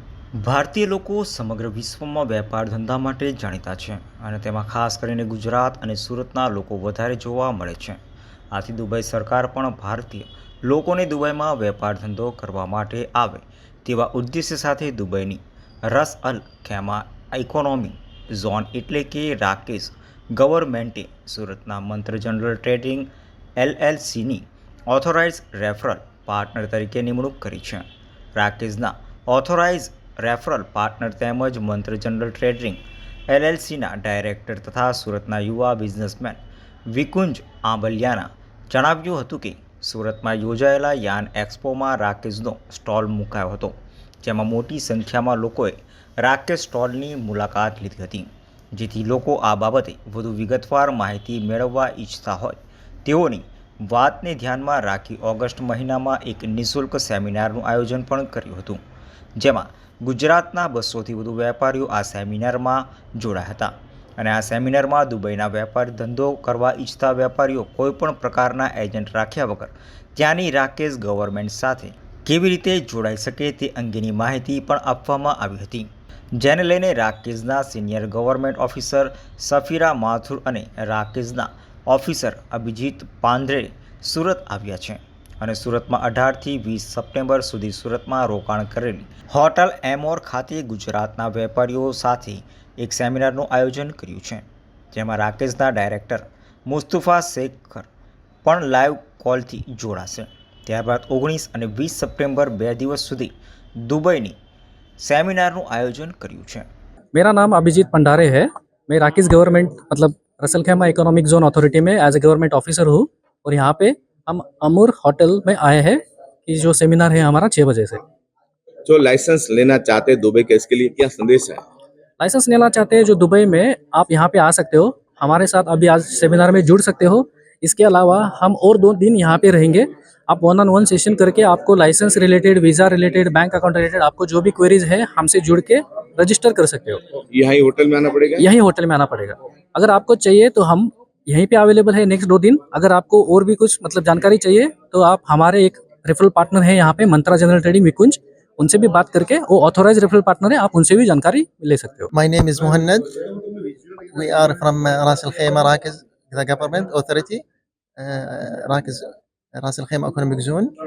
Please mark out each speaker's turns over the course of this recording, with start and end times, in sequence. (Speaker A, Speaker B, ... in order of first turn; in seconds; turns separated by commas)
Speaker A: 0.3-8.0, Speaker A: 8.5-58.8, Speaker A: 59.4-97.9, Speaker A: 98.4-104.3, Speaker A: 105.0-106.7, Speaker B: 107.1-118.0, Speaker C: 118.8-121.6, Speaker B: 122.2-137.0, Speaker C: 137.3-138.5, Speaker B: 138.4-152.1, Speaker D: 152.1-153.1, Speaker D: 154.1-157.4, Speaker D: 158.0-160.7